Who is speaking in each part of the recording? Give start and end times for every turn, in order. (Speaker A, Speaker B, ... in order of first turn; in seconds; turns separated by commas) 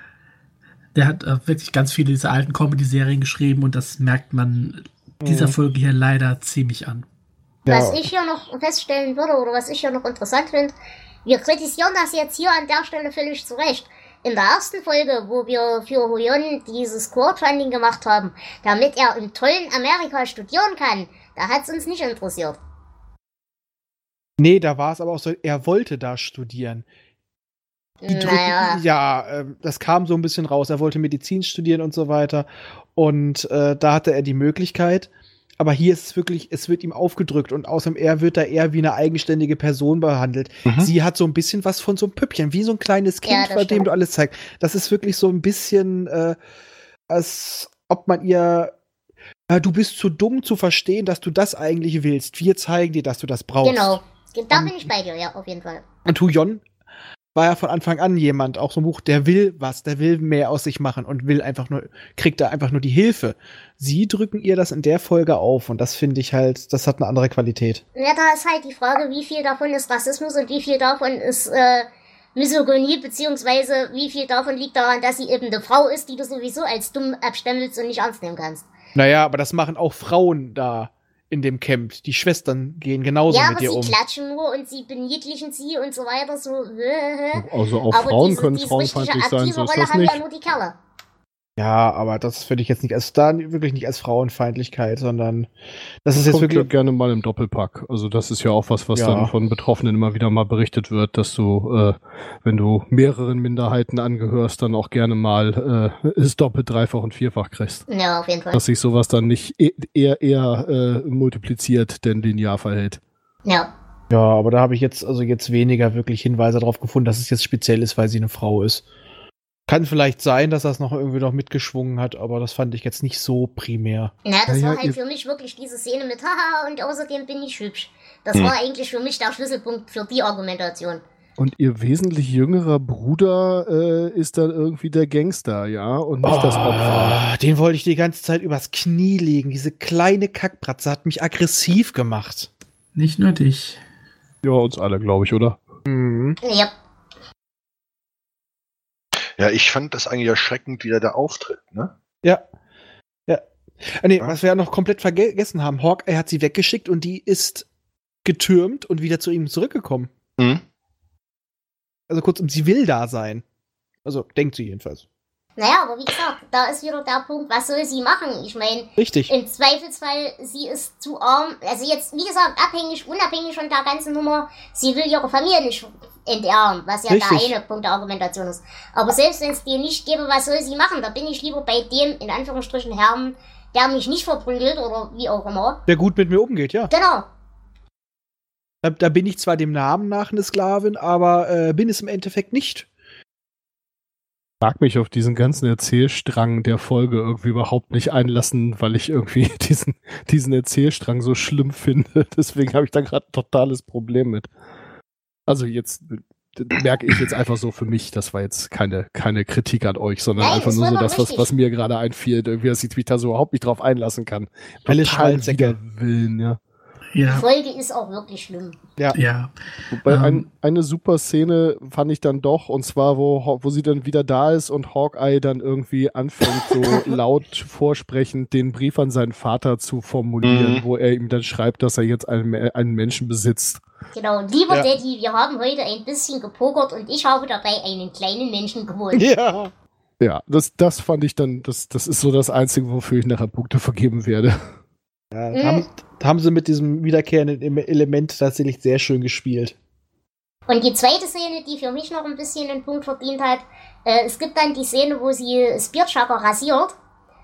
Speaker A: 0.9-7.1, Speaker B: 5.2-5.6, Speaker B: 7.7-8.0, Speaker C: 7.7-10.7, Speaker C: 11.2-22.6, Speaker B: 24.4-26.9, Speaker C: 28.0-28.8, Speaker B: 28.1-46.4, Speaker D: 40.7-40.9, Speaker C: 43.3-43.9, Speaker B: 47.1-48.7, Speaker B: 49.5-54.0, Speaker C: 53.6-55.8, Speaker B: 54.5-54.8, Speaker B: 56.1-56.6, Speaker B: 57.4-67.8, Speaker C: 68.0-78.7, Speaker B: 79.0-84.0, Speaker C: 83.3-90.8, Speaker E: 87.3-90.2, Speaker B: 91.6-95.5, Speaker B: 96.0-96.7, Speaker E: 96.1-107.8, Speaker B: 99.0-99.3, Speaker C: 107.9-108.6, Speaker E: 108.5-113.0, Speaker C: 113.5-113.7, Speaker B: 114.1-118.8, Speaker B: 119.7-124.1, Speaker C: 124.2-131.0, Speaker E: 124.5-125.0, Speaker E: 131.4-137.2, Speaker B: 136.3-142.5, Speaker A: 143.0-143.8, Speaker E: 144.4-145.6, Speaker B: 145.9-146.4, Speaker C: 146.4-146.7, Speaker D: 149.4-151.9, Speaker B: 153.3-157.7, Speaker B: 158.2-160.1, Speaker D: 160.4-160.6, Speaker B: 162.1-163.4, Speaker B: 164.1-165.0, Speaker C: 165.6-185.8, Speaker B: 169.0-169.3, Speaker B: 177.1-177.5, Speaker B: 185.9-186.9, Speaker C: 186.9-187.3, Speaker B: 188.8-192.9, Speaker E: 194.6-204.5, Speaker E: 205.5-216.6, Speaker C: 210.4-211.5, Speaker B: 214.9-215.8, Speaker A: 217.1-217.5, Speaker C: 217.3-218.8, Speaker A: 219.1-219.5, Speaker E: 219.9-233.8, Speaker A: 220.1-220.4, Speaker B: 226.8-227.2, Speaker D: 230.4-230.8, Speaker C: 234.2-239.3, Speaker B: 239.1-239.7, Speaker E: 240.2-244.7, Speaker B: 245.3-249.8, Speaker C: 245.5-245.8, Speaker C: 250.7-257.0